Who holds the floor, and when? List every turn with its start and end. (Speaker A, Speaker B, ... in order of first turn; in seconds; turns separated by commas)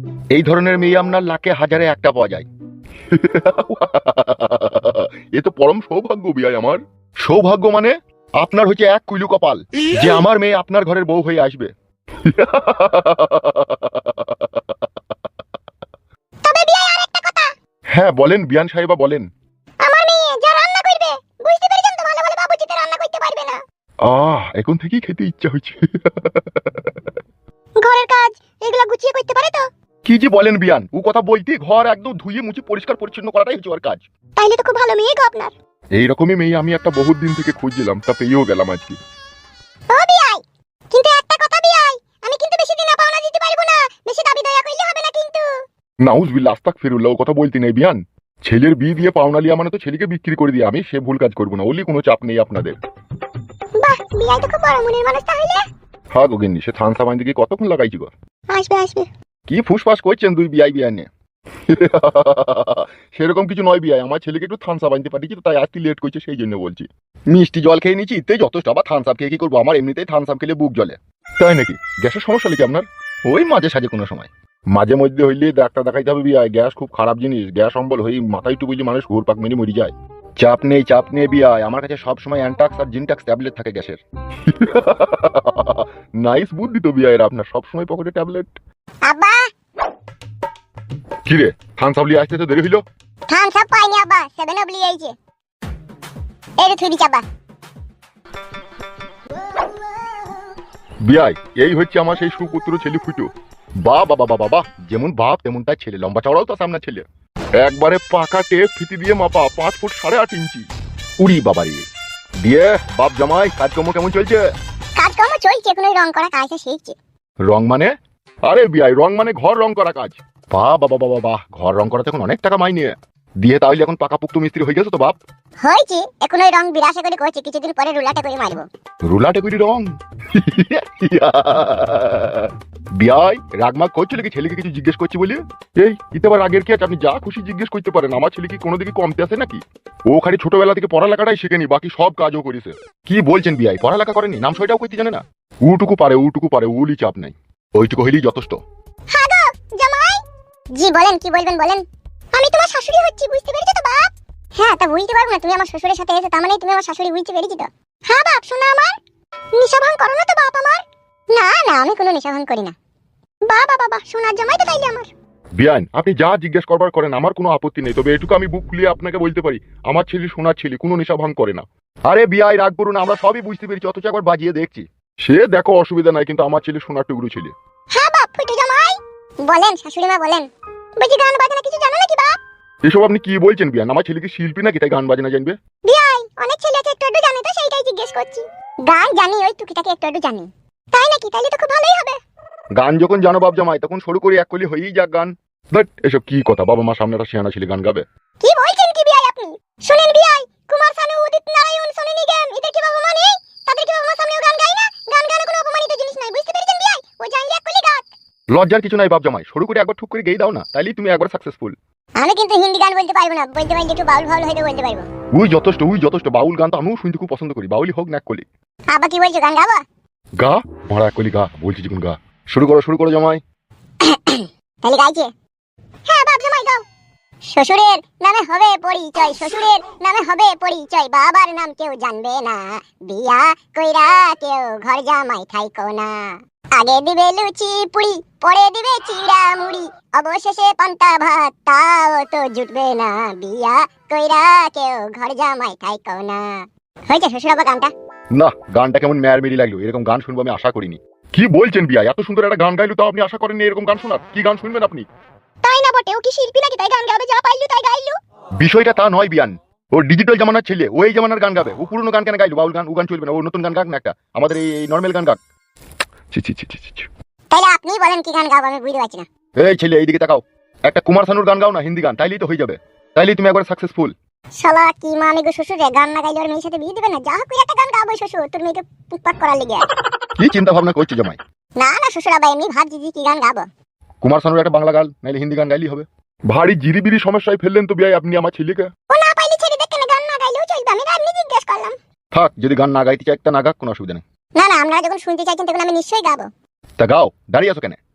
Speaker A: 0.3-2.5, Speaker A: 3.1-11.7, Speaker A: 12.2-14.6, Speaker B: 16.4-17.5, Speaker A: 17.9-19.3, Speaker B: 19.8-23.6, Speaker A: 24.0-27.0, Speaker B: 27.8-29.7, Speaker A: 30.1-34.0, Speaker B: 34.4-35.5, Speaker A: 36.0-39.0, Speaker B: 39.9-45.5, Speaker A: 46.0-52.8, Speaker B: 53.8-55.6, Speaker A: 56.1-58.1, Speaker B: 58.5-59.1, Speaker A: 59.5-61.1, Speaker A: 61.7-88.6, Speaker B: 89.0-89.4, Speaker A: 91.3-92.8, Speaker B: 93.3-95.1, Speaker B: 96.6-97.2, Speaker A: 101.0-103.3, Speaker A: 103.8-107.0, Speaker A: 107.6-110.7, Speaker A: 111.2-111.8, Speaker A: 112.4-114.4, Speaker B: 115.0-117.0, Speaker A: 117.4-117.9, Speaker A: 118.5-125.2, Speaker B: 125.6-128.7, Speaker A: 129.0-148.6, Speaker B: 149.1-150.2, Speaker B: 150.8-158.9, Speaker B: 159.6-160.8, Speaker B: 161.3-162.8, Speaker B: 163.5-165.1, Speaker A: 165.6-177.5, Speaker B: 177.9-182.3, Speaker A: 182.8-185.6, Speaker B: 185.9-192.2, Speaker A: 192.7-198.1, Speaker B: 198.4-208.1, Speaker A: 208.5-211.8, Speaker B: 212.2-215.1, Speaker A: 215.3-218.5, Speaker B: 218.9-219.8, Speaker A: 220.4-223.4, Speaker B: 224.0-225.3, Speaker B: 226.1-226.8, Speaker B: 227.5-247.9, Speaker A: 248.3-255.1, Speaker B: 255.6-258.1, Speaker A: 258.6-265.4, Speaker A: 266.3-267.1, Speaker B: 267.5-269.3, Speaker A: 269.6-274.1, Speaker B: 274.6-279.9, Speaker A: 280.4-281.4, Speaker B: 281.8-283.7, Speaker A: 284.2-288.9, Speaker B: 289.1-291.9, Speaker A: 292.3-294.2, Speaker B: 294.6-296.5, Speaker A: 297.0-298.0